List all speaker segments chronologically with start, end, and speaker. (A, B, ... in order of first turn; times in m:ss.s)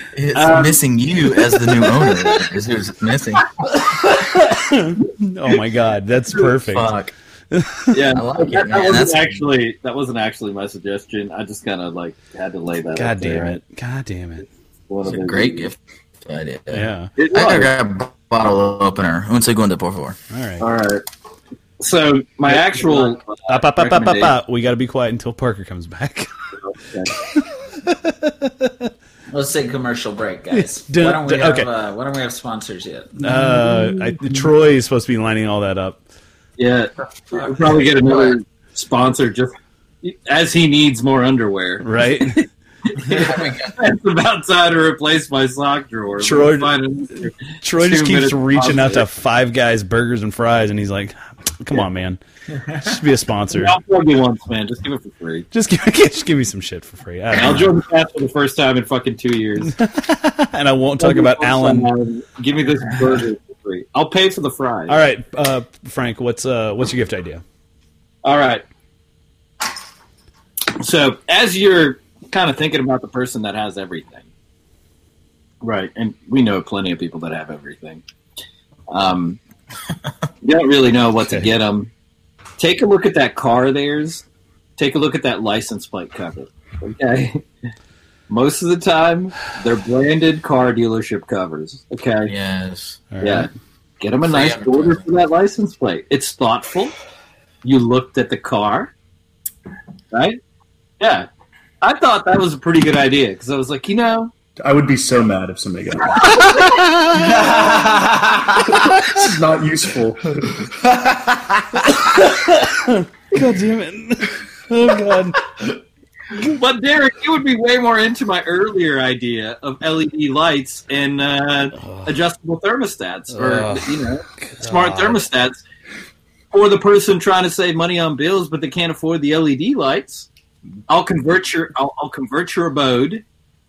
0:00.1-0:03.5 A
0:00.3-0:00.8 B
0:01.8-0:02.3 B
0:03.6-0:05.0 B
0:04.5-0:06.9 C
0:06.7-0:07.1 A
0:07.5-0:07.9 C
0:07.9-0:13.6 B
0:08.1-0:09.4 A
0:13.0-0:14.5 C
0:14.9-0:15.7 B
0:15.0-0:20.2 A
0:16.7-0:17.1 C
0:17.2-0:17.7 B
0:20.3-0:20.6 C
0:20.6-0:21.0 B
0:21.8-0:24.3 B
0:22.5-0:26.3 C
0:26.6-0:27.1 B
0:27.2-0:28.9 C
0:29.3-0:33.2 D
0:30.5-0:31.7 C
0:33.2-0:36.0 C
0:33.2-0:33.7 B
0:36.6-0:49.0 B
0:37.9-0:38.4 A
0:41.8-0:42.4 C
0:43.1-0:43.8 A
0:46.2-0:46.8 C
0:47.6-0:52.2 C
0:52.8-0:53.8 C
0:53.5-0:55.4 B
0:55.5-0:57.8 C
0:57.3-0:59.7 B
0:59.7-1:01.9 C
1:01.0-1:05.0 B
1:04.9-1:07.4 C
1:08.2-1:08.6 B
1:10.7-1:14.2 B
1:15.6-1:18.0 B
1:18.9-1:19.4 B
1:20.4-1:21.9 B
1:22.6-1:24.2 B
1:24.8-1:27.4 B
1:28.3-1:32.3 B
1:32.3-1:33.0 A
1:33.1-1:33.5 C
1:33.2-1:33.5 B
1:34.0-1:36.9 B
1:34.2-1:35.1 A
1:37.6-1:38.9 B
1:40.1-1:40.4 B
1:41.0-1:41.3 B
1:41.8-1:44.3 B
1:44.6-1:46.7 E
1:46.2-1:46.8 B
1:46.4-1:47.5 C
1:47.1-1:49.1 D
1:48.6-1:50.7 E
1:50.9-1:52.1 D
1:51.9-1:55.5 C
1:56.3-2:05.6 B
2:01.8-2:02.1 C
2:03.3-2:05.2 C
2:06.5-2:10.3 B
2:10.9-2:13.2 B